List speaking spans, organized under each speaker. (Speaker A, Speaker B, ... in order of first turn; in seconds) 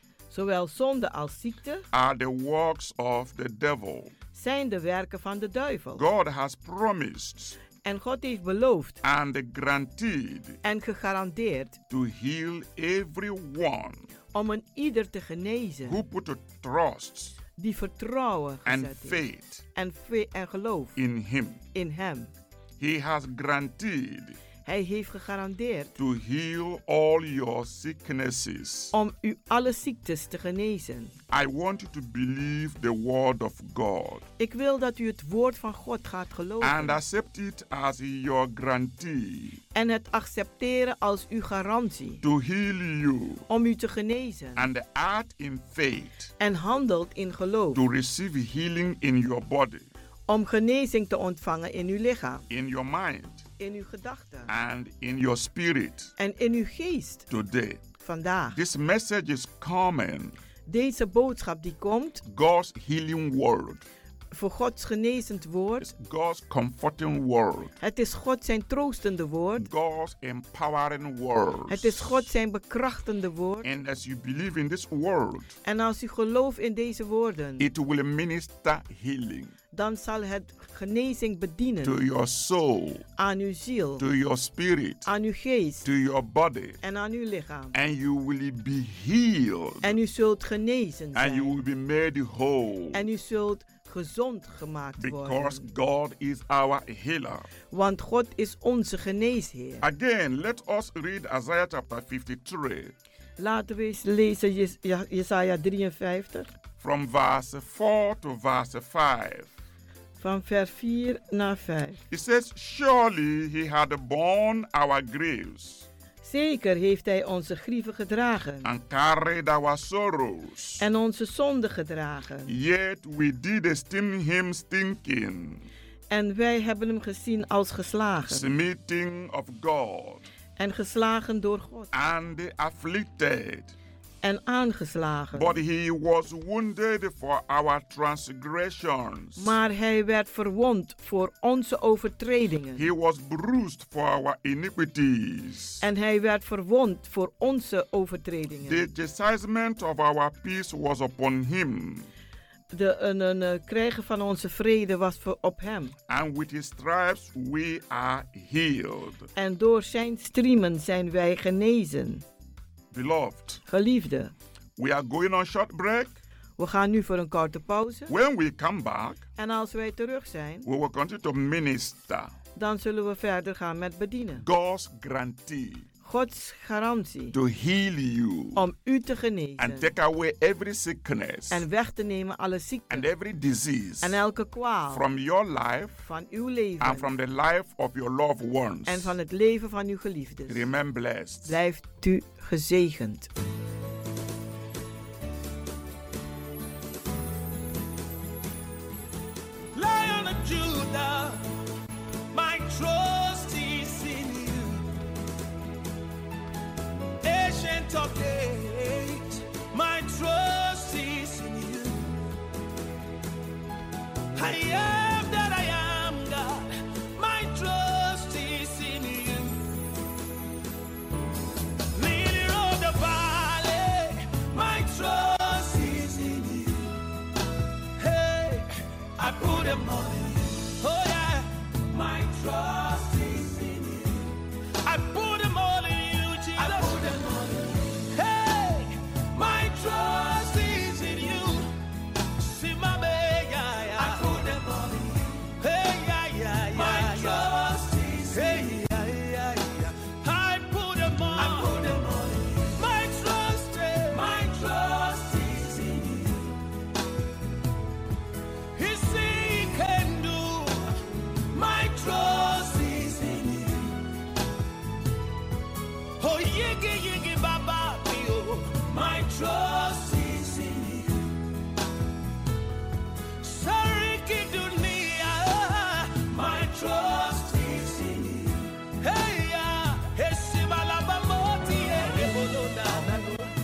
Speaker A: 0.3-1.9, 4.3-6.0, 7.8-9.0, 10.6-11.8, 14.3-16.0, 17.6-19.2, 19.8-20.9, 21.7-22.3, 24.6-25.9, 28.9-31.1, 34.4-37.0, 39.7-42.2, 43.5-44.7, 46.4-47.8, 50.3-52.4, 53.6-54.5, 56.2-57.2, 58.0-58.6, 60.7-62.2, 64.3-65.9, 67.8-69.7, 71.7-73.7, 75.6-77.7, 79.7-82.0, 83.2-84.0, 85.0-85.9, 86.8-87.8, 89.8-91.5, 92.9-95.7, 97.7-99.8, 103.4-106.5, 110.2-112.0, 116.2-118.7, 120.8-122.5, 126.1-128.5, 130.6-131.9, 134.2-135.6, 139.4-142.9, 145.8-148.9, 152.7-155.9, 159.4-162.2, 163.7-164.3, 166.6-168.1, 169.4-170.7, 172.6-174.4, 176.0-177.3, 178.6-179.9, 181.5-183.1, 184.0-185.0, 186.1-187.1, 188.9-190.7, 191.5-193.3
Speaker B: 1.9-4.1, 6.0-7.6, 9.0-10.6, 11.9-14.1, 15.9-17.4, 18.7-19.6, 21.0-21.6, 22.8-24.4, 26.0-28.9, 31.3-34.3, 36.6-39.6, 42.2-43.5, 44.6-46.3, 47.8-49.9, 52.5-53.5, 54.5-56.1, 57.3-57.8, 58.5-60.4, 62.2-63.9, 65.8-67.8, 69.6-72.2, 73.6-75.5, 77.6-79.5, 81.8-83.0, 84.0-85.1, 85.8-86.8, 87.7-90.0, 91.2-93.0, 95.0-97.5, 99.8-102.9, 106.8-109.5, 112.1-115.9, 118.6-120.8, 122.5-125.7, 128.3-130.2, 131.9-133.8, 135.3-139.6, 142.8-145.8, 148.6-152.1, 156.1-159.3, 162.9-163.6, 164.8-166.2, 168.1-169.2, 170.7-172.3, 174.4-175.9, 177.3-178.7, 179.6-181.7, 182.9-184.2, 184.9-186.1, 186.8-189.1, 190.5-191.6
Speaker C: 199.8-201.4, 202.3-204.8, 207.2-212.1, 214.3-219.6, 221.9-226.9, 228.0-234.3, 234.8-241.7, 242.4-256.5, 258.8-260.9, 261.5-264.0, 266.2-271.3, 273.4-283.5